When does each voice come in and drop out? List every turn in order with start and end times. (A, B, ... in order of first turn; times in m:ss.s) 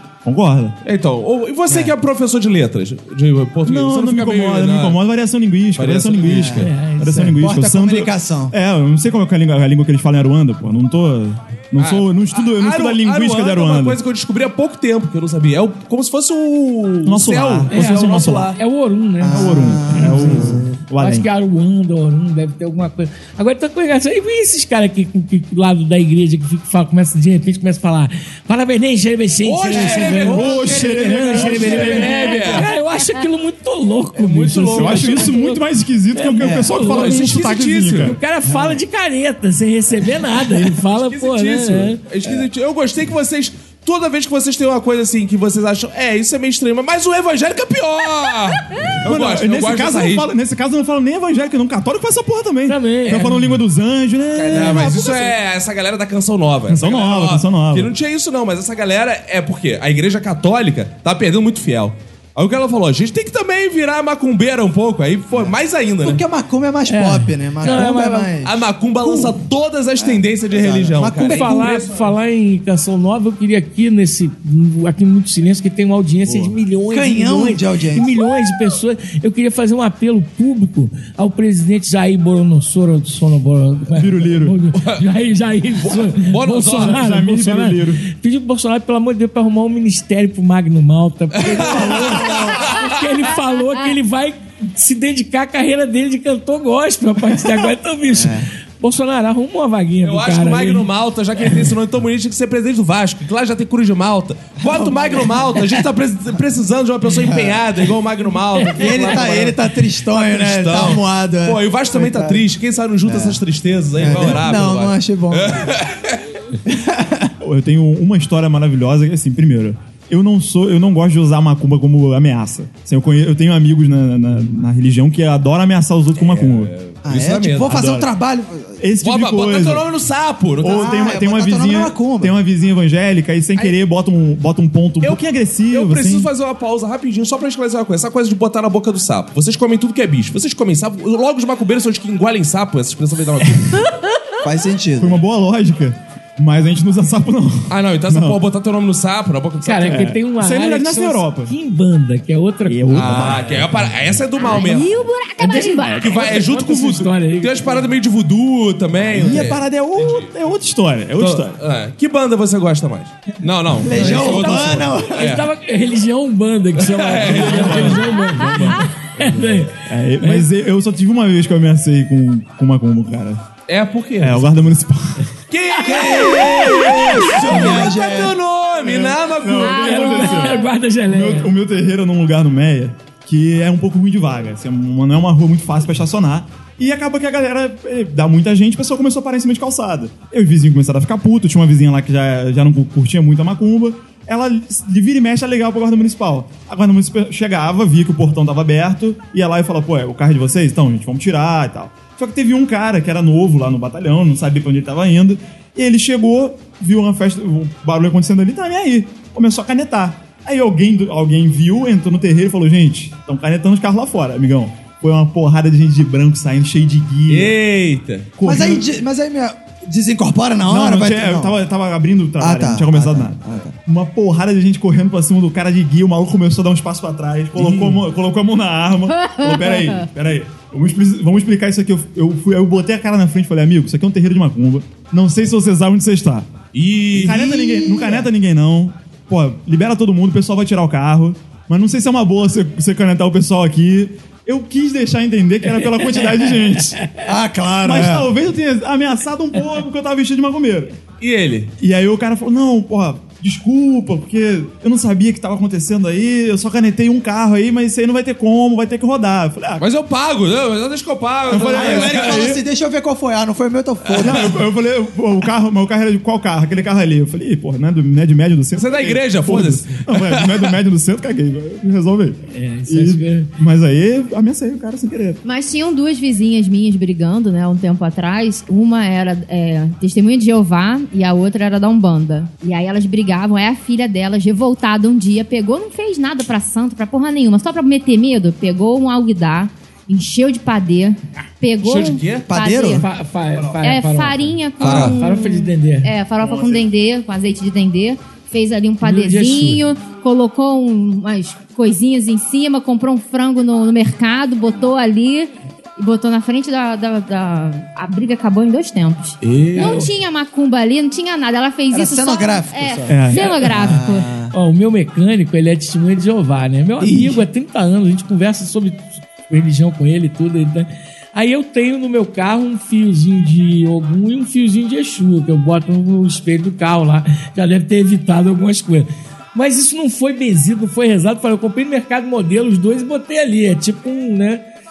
0:00.2-0:00.8 A
0:00.8-0:05.0 B
0:03.6-0:14.0 A
0:05.7-0:06.7 B
0:06.2-0:06.6 C
0:06.6-0:07.4 D
0:07.3-0:08.5 C
0:11.8-0:18.6 B
0:17.0-0:18.5 A
0:17.7-0:35.6 D
0:19.2-0:20.7 C
0:19.3-0:21.3 A
0:29.4-0:32.7 B
0:30.0-0:32.3 A
0:34.2-0:35.4 B
0:34.7-0:38.2 A
0:36.1-0:37.4 D
0:36.4-0:36.7 C
0:36.8-0:38.1 B
0:38.0-0:42.0 D
0:40.9-0:50.3 B
0:49.0-0:55.3 A
0:52.7-0:53.6 D
0:54.3-1:06.2 B
0:56.7-0:57.9 A
1:05.3-1:09.3 C
1:06.9-1:08.3 D
1:07.6-1:07.9 B
1:08.4-1:12.1 B
1:10.0-1:11.6 C
1:11.2-1:40.9 D
1:16.9-1:18.1 C
1:23.9-1:24.6 A
1:24.8-1:25.0 B
1:25.8-1:27.0 B
1:26.8-1:28.0 A
1:31.4-1:32.9 B
1:31.5-1:32.7 C
1:38.1-1:38.5 C
1:40.0-1:56.2 B
1:44.6-1:45.7 C
1:47.1-1:47.6 C
1:48.6-1:49.2 D
1:48.8-1:52.4 C
1:53.0-1:53.4 C
1:54.0-1:55.7 C
1:56.7-1:57.3 C
1:57.4-2:06.7 A
2:06.2-2:07.8 B
2:07.0-2:08.8 C
2:07.7-2:08.1 A
2:08.8-2:09.9 A
2:09.0-2:11.0 B
2:10.6-2:16.3 A
2:10.6-2:12.4 C
2:15.0-2:23.9 B
2:24.4-2:25.2 C
2:25.0-2:28.4 A
2:27.7-2:30.1 B
2:29.6-2:33.3 D
2:29.9-2:31.5 A
2:32.7-2:33.7 A
2:32.9-2:35.0 B
2:34.4-2:36.1 E
2:35.4-2:37.8 D
2:36.0-2:40.4 B
2:39.1-2:41.6 A
2:41.2-2:45.5 B
2:43.8-2:45.2 C
2:44.0-2:50.5 D
2:46.8-2:48.0 B
2:47.2-2:48.8 A
2:49.8-2:53.4 A
2:53.7-2:54.6 B
2:54.2-2:55.2 A
2:55.5-3:00.4 B
2:55.8-2:58.4 C
2:56.4-2:57.8 D
2:58.8-3:37.6 A
2:59.6-3:01.5 D
3:37.3-3:38.3 B
3:38.4-3:38.9 A
3:38.4-3:41.5 C
3:40.6-3:56.5 A
3:42.4-3:43.7 C
3:47.6-3:47.8 B
3:49.1-3:50.0 E
3:56.7-3:57.4 B
3:57.1-4:07.0 A
3:57.1-3:58.3 C
4:05.8-4:06.4 D
4:07.2-4:08.3 C
4:07.8-4:11.0 A
4:11.2-4:11.7 B
4:11.8-4:19.8 A
4:19.8-4:22.5 B
4:21.5-4:22.6 A
4:21.6-4:24.6 C
4:24.0-4:24.5 B
4:24.2-4:32.4 A
4:28.7-4:30.7 B
4:32.5-4:33.5 D
4:32.9-4:35.4 A
4:35.4-4:53.0 E
4:51.8-4:52.5 B
4:52.5-4:53.0 C
4:52.9-4:56.1 D
4:53.8-5:14.3 E
4:54.8-4:55.2 B
4:56.4-4:56.8 A
4:59.0-4:59.8 D
5:09.4-5:10.0 B
5:09.7-5:10.1 D
5:11.9-5:14.5 C
5:13.1-5:14.0 A
5:14.5-5:34.6 D
5:17.0-5:17.4 C